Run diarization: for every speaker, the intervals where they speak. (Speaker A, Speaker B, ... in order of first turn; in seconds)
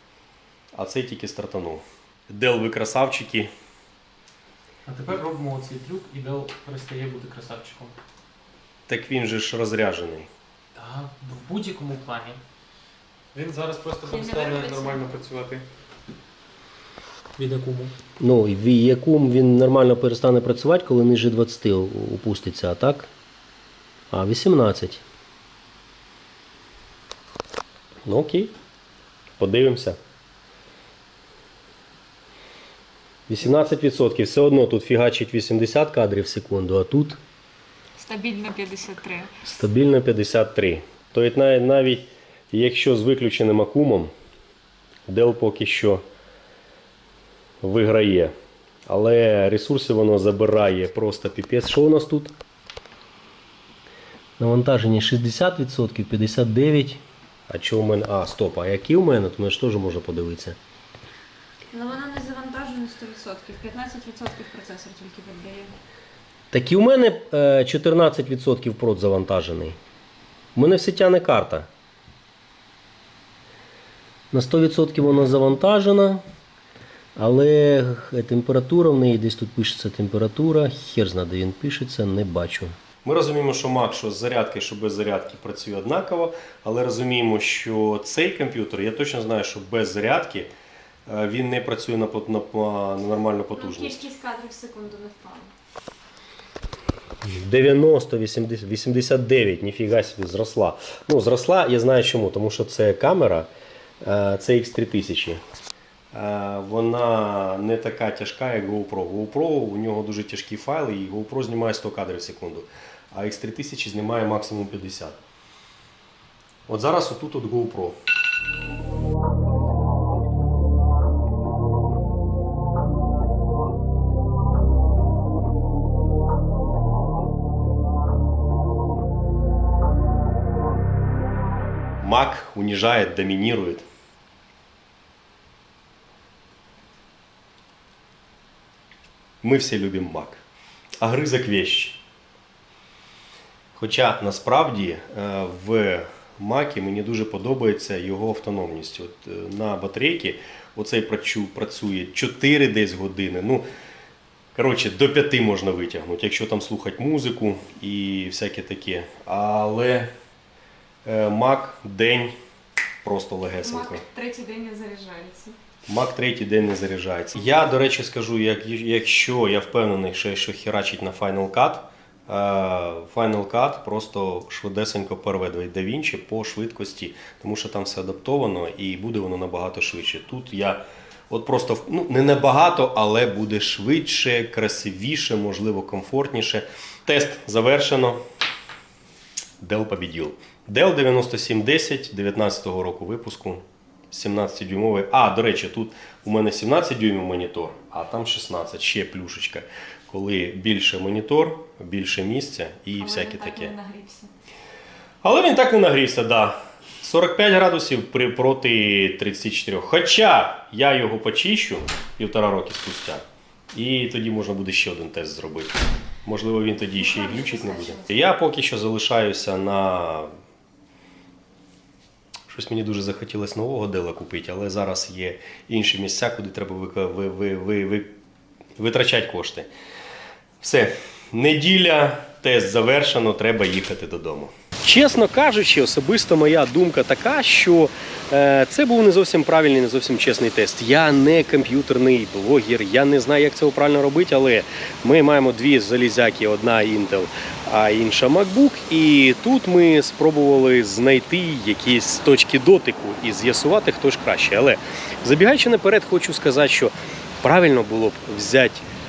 Speaker A: 0.7-3.5, 8.9-10.3, 18.2-23.1, 24.1-25.0, 28.1-28.5, 29.4-30.0, 33.3-37.2, 39.4-44.1, 45.1-46.0, 47.6-48.3, 48.9-52.3, 54.4-60.6, 66.5-69.8, 70.5-71.7, 74.3-76.2, 77.2-90.5, 91.1-94.1, 97.2-103.5, 104.0-105.4, 106.1-115.2, 116.7-118.0, 132.0-133.8, 139.4-140.4, 141.0-142.0, 143.8-153.7, 154.6-160.1, 161.1-162.3, 163.0-164.0, 165.9-188.2, 189.6-203.7, 205.2-213.2, 213.7-220.3, 222.5-228.1, 228.8-229.7, 230.6-258.9
Speaker B: 4.9-8.0, 10.8-12.4, 13.3-15.7, 17.4-17.9
Speaker C: 14.1-15.0, 38.0-39.3, 61.7-65.7, 93.5-95.5, 163.6-165.6, 203.0-204.3, 217.0-218.2